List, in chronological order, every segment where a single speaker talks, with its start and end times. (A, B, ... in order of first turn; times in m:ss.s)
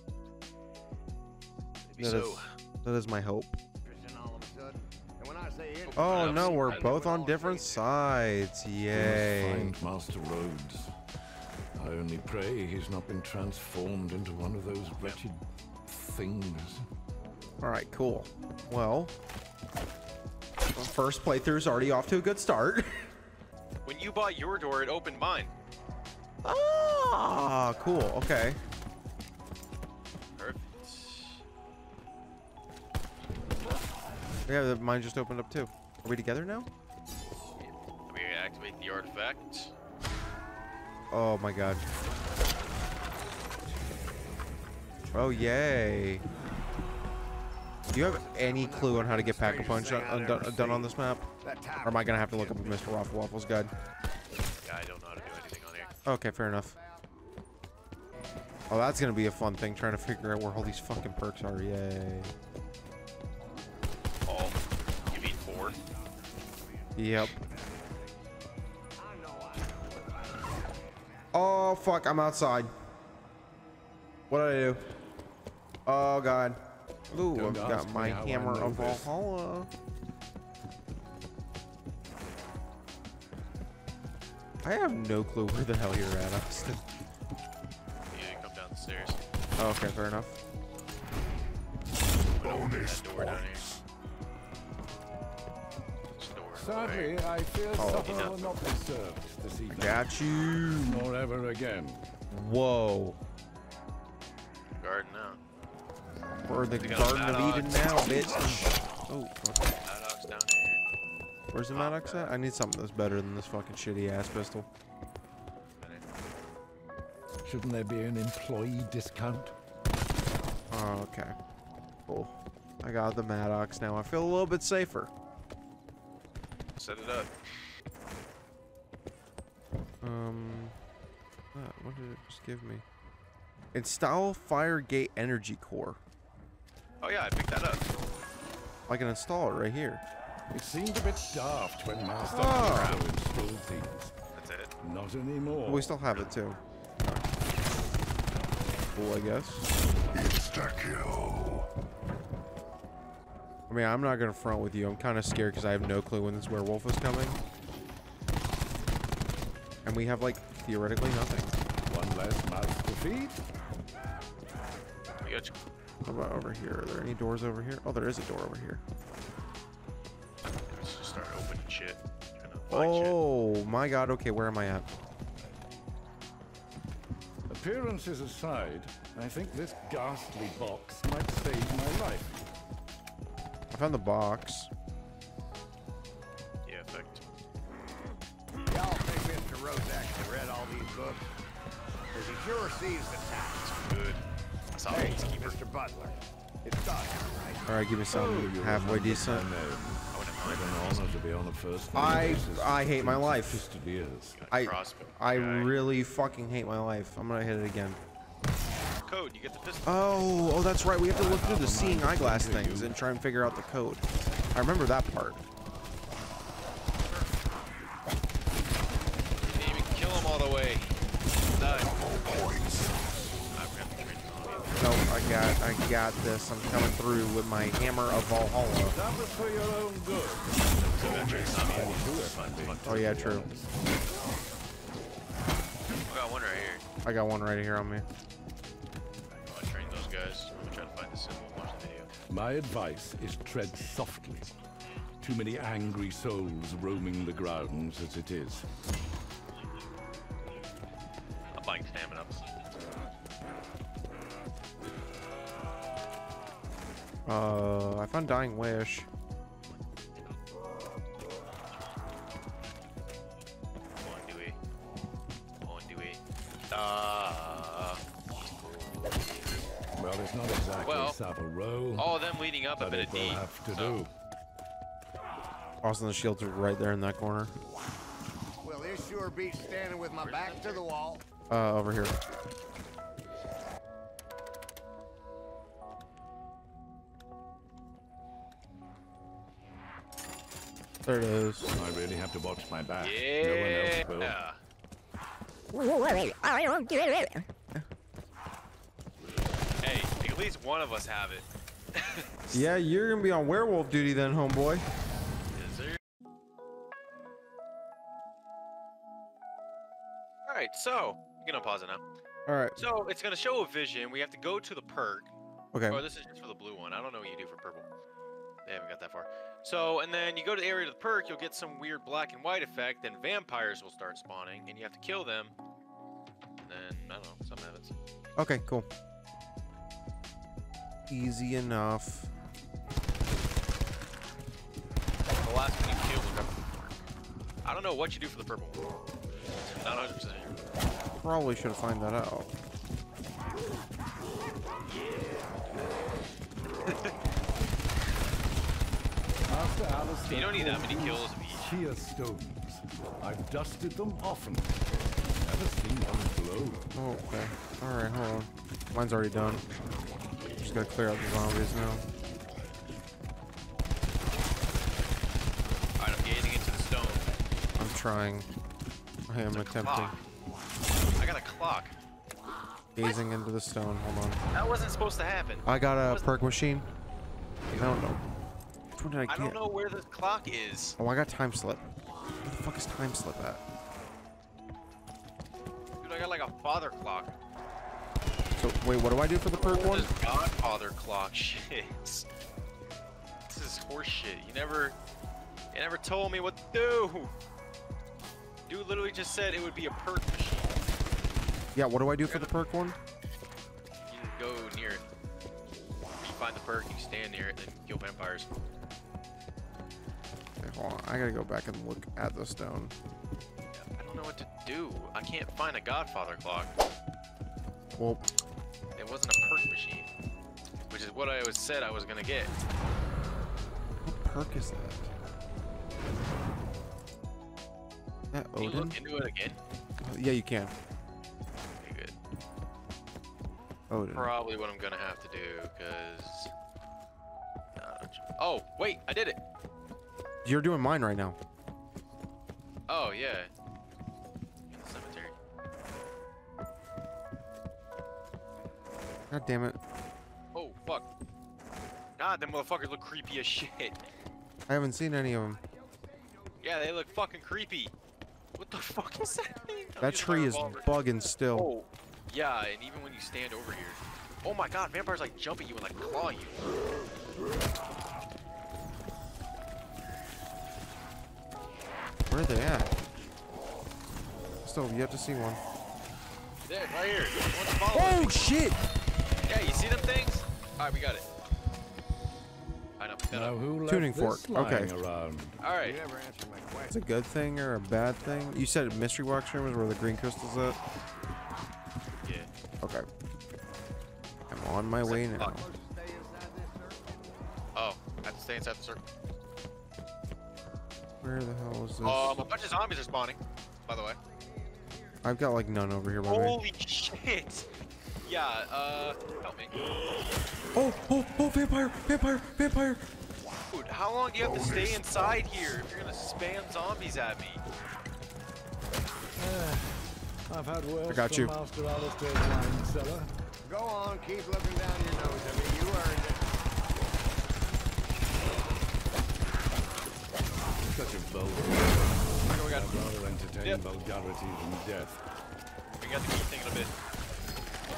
0:01.9-0:02.5 A
0:02.0-0:03.6 B
0:03.8-0:07.8 C
0:05.8-0:07.0 A
0:06.0-0:09.7 B
0:08.9-0:10.9 D
0:11.8-0:16.8 D
0:17.6-0:19.1 B
0:20.7-0:22.9 B
0:23.8-0:25.5 A
0:26.4-0:28.6 B
0:30.4-0:31.4 A
0:33.5-0:33.8 A
0:34.5-0:36.7 B
0:37.6-0:39.7 A
0:41.1-0:41.8 B
0:45.1-0:46.2 B
0:47.9-0:51.3 B
0:47.9-0:52.9 C
0:51.8-0:53.7 B
0:54.6-0:56.0 A
0:56.0-0:56.7 B
0:58.7-1:02.3 B
1:04.2-1:04.6 A
1:05.1-1:05.8 A
1:06.5-1:08.1 C
1:07.0-1:07.3 B
1:09.0-1:11.1 C
1:11.3-1:12.7 B
1:14.3-1:14.8 B
1:15.8-1:16.6 B
1:17.1-1:19.7 B
1:17.3-1:19.1 D
1:24.6-1:26.8 B
1:28.1-1:29.2 A
1:29.6-1:30.4 B
1:32.4-1:33.6 A
1:32.4-1:33.8 D
1:36.2-1:37.2 A
1:36.5-1:40.0 D
1:37.8-1:38.2 B
1:37.8-1:38.6 A
1:39.7-1:41.0 B
1:40.8-1:42.0 D
1:42.3-1:43.2 B
1:44.8-1:45.4 A
1:46.4-1:49.7 B
1:46.7-1:47.8 A
1:49.8-1:50.8 A
1:51.5-1:54.7 B
1:51.7-1:52.3 A
1:55.8-1:56.0 A
1:57.4-1:59.5 D
2:00.7-2:01.3 B
2:02.1-2:05.1 B
2:06.8-2:07.3 A
2:10.0-2:10.8 B
2:11.5-2:12.8 B
2:13.7-2:16.0 B
2:17.0-2:17.8 A
2:18.9-2:20.0 B
2:20.5-2:24.1 D
2:22.3-2:23.0 B
2:22.4-2:23.0 A
2:24.3-2:24.7 A
2:24.8-2:25.9 D
2:25.6-2:27.2 B
2:28.9-2:29.7 B
2:30.2-2:31.6 D
2:33.7-2:37.4 B
2:39.8-2:41.5 B
2:41.8-2:43.4 D
2:45.2-2:45.5 A
2:46.0-2:48.8 B
2:50.7-2:53.2 A
2:52.7-2:54.8 B
2:57.5-3:02.4 D
3:03.7-3:04.7 B
3:06.6-3:07.2 A
3:08.7-3:11.3 C
3:12.1-3:13.6 C
3:13.6-3:14.2 A
3:14.7-3:15.6 A
3:14.9-3:17.6 C
3:17.6-3:19.4 B
3:18.1-3:24.4 D
3:20.1-3:21.1 A
3:21.9-3:23.6 B
3:24.3-3:25.8 A
3:24.5-3:28.0 B
3:29.0-3:30.6 A
3:29.8-3:35.4 B
3:31.1-3:32.9 D
3:39.4-3:40.9 A
3:41.6-3:41.9 A
3:42.4-3:42.8 D
3:43.5-3:44.8 A
3:44.8-3:49.0 B
3:48.9-3:53.8 D
3:50.7-3:53.0 A
3:52.8-3:53.5 B
3:56.1-3:56.8 A
3:57.0-3:58.0 B
3:59.3-4:02.1 A
4:02.3-4:04.5 D
4:05.2-4:08.7 D
4:11.5-4:12.4 A
4:17.2-4:19.1 B
4:24.0-4:24.6 A
4:25.6-4:28.0 A
4:30.0-4:32.1 D
4:30.8-4:31.2 A
4:32.0-4:34.0 A
4:32.8-4:34.1 D
4:35.8-4:37.5 B
4:38.6-4:41.2 C
4:40.2-4:40.9 A
4:41.5-4:42.1 B
4:51.0-4:51.7 B
4:51.7-4:54.4 D
4:53.0-4:54.6 A
4:59.8-5:02.7 A
5:02.5-5:04.8 B
5:05.5-5:06.0 A
5:10.4-5:12.0 A
5:12.5-5:12.8 B
5:12.8-5:15.3 A
5:15.7-5:16.0 B
5:15.9-5:17.9 A
5:18.6-5:25.5 A
5:26.6-5:27.9 A
5:28.4-5:28.8 B
5:31.1-5:32.3 B
5:35.4-5:37.0 A
5:37.6-5:38.8 A
5:39.6-5:40.6 A
5:41.2-5:42.5 B
5:46.8-5:47.1 A
5:49.5-5:54.8 D
5:50.2-5:51.6 A
5:55.4-5:56.9 D
5:56.9-5:59.6 B
6:00.6-6:02.0 B
6:06.0-6:07.3 A
6:07.8-6:08.5 B
6:09.3-6:10.1 B
6:09.5-6:10.2 A
6:11.2-6:11.9 A
6:13.0-6:14.4 B
6:14.5-6:16.3 A
6:15.6-6:16.9 B
6:17.7-6:18.0 A
6:17.7-6:18.2 B
6:19.0-6:19.6 B
6:19.2-6:21.0 A
6:21.0-6:21.8 B
6:22.4-6:23.6 B
6:26.0-6:27.3 A
6:28.5-6:30.1 B
6:29.5-6:32.2 A
6:33.5-6:35.0 A
6:35.7-6:37.3 A
6:38.7-6:40.8 A
6:41.7-6:43.0 B
6:42.2-6:42.5 A
6:44.1-6:45.0 A
6:46.2-6:48.6 A
6:50.6-6:52.9 B
6:53.7-6:56.7 A
6:58.0-6:58.2 B
6:59.0-7:00.1 A
7:00.9-7:02.5 A
7:04.0-7:05.1 B
7:08.3-7:09.0 B
7:08.6-7:09.6 A
7:10.0-7:10.7 B
7:11.8-7:12.1 A
7:13.9-7:14.3 B
7:14.1-7:16.5 A
7:17.8-7:19.4 A
7:20.4-7:21.4 B
7:22.9-7:23.5 A
7:24.7-7:25.4 A
7:29.3-7:29.8 B
7:30.5-7:31.0 A
7:32.2-7:34.0 A
7:34.7-7:35.6 B
7:36.6-7:37.9 A
7:38.6-7:40.9 A
7:40.0-7:41.7 B
7:41.5-7:46.6 A
7:52.3-7:52.9 B
7:54.6-7:55.6 B
7:56.6-7:58.5 A
7:57.9-7:58.8 B
7:59.5-8:01.2 A
8:03.0-8:03.6 A
8:03.3-8:05.6 D
8:03.8-8:04.9 B
8:05.6-8:06.0 A
8:05.8-8:07.0 C
8:06.9-8:10.8 B
8:12.2-8:12.5 A
8:14.5-8:15.7 B
8:15.0-8:15.6 A
8:15.3-8:17.1 C
8:17.7-8:19.0 A
8:21.2-8:22.4 B
8:22.0-8:24.2 A
8:25.2-8:26.6 B
8:26.2-8:27.7 A
8:28.2-8:29.8 A
8:30.7-8:33.0 B
8:33.7-8:37.6 A
8:39.4-8:43.3 D
8:41.1-8:41.6 B
8:43.6-8:46.5 C
8:50.8-8:55.2 D
8:52.4-8:53.0 A
8:56.0-8:56.9 A